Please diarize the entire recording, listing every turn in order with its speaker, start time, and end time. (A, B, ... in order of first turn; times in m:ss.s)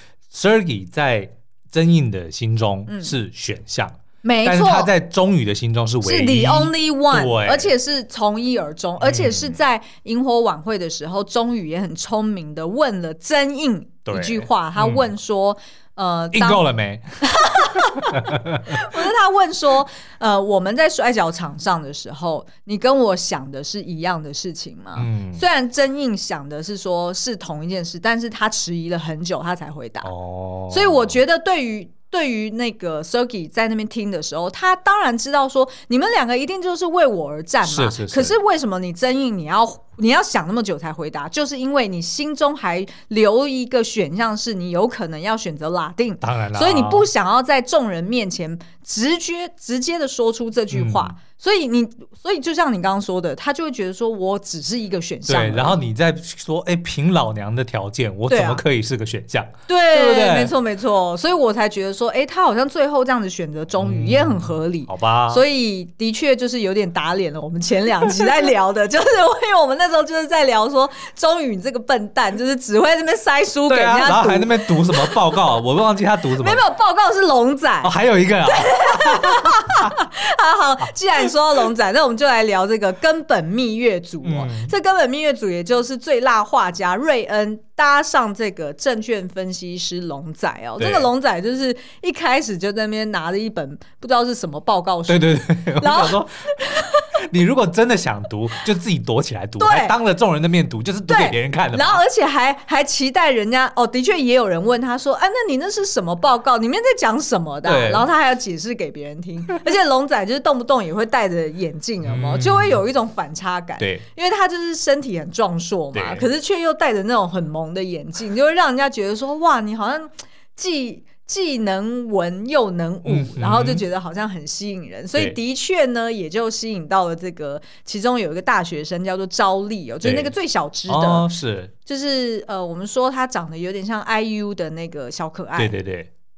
0:00.3-0:07.7 A
0:02.9-0:03.2 B
0:04.2-0:04.9 B
0:06.0-0:16.6 B
0:09.0-0:09.6 A
0:14.1-0:15.1 A
0:16.3-0:19.0 A
0:17.2-0:30.1 B
0:25.0-0:25.4 A
0:30.0-0:31.1 A
0:30.7-0:55.8 B
0:37.6-0:38.4 A
0:46.2-0:47.1 A
0:50.7-0:51.1 A
0:55.3-1:00.5 A
0:58.3-0:58.6 B
0:59.7-1:15.3 B
1:03.8-1:05.4 A
1:13.7-1:16.6 A
1:16.4-1:17.9 B
1:17.8-1:20.0 A
1:18.5-1:37.1 B
1:24.2-1:24.7 A
1:30.8-1:31.1 A
1:35.1-1:36.5 A
1:37.2-1:42.0 A
1:39.6-1:40.0 B
1:41.1-2:11.3 B
1:47.6-1:48.1 A
1:52.0-1:52.8 A
1:53.8-1:54.0 A
1:55.9-1:56.3 A
2:03.0-2:03.8 A
2:10.0-2:10.3 A
2:10.9-2:11.7 A
2:11.9-2:15.8 B
2:15.6-2:16.1 A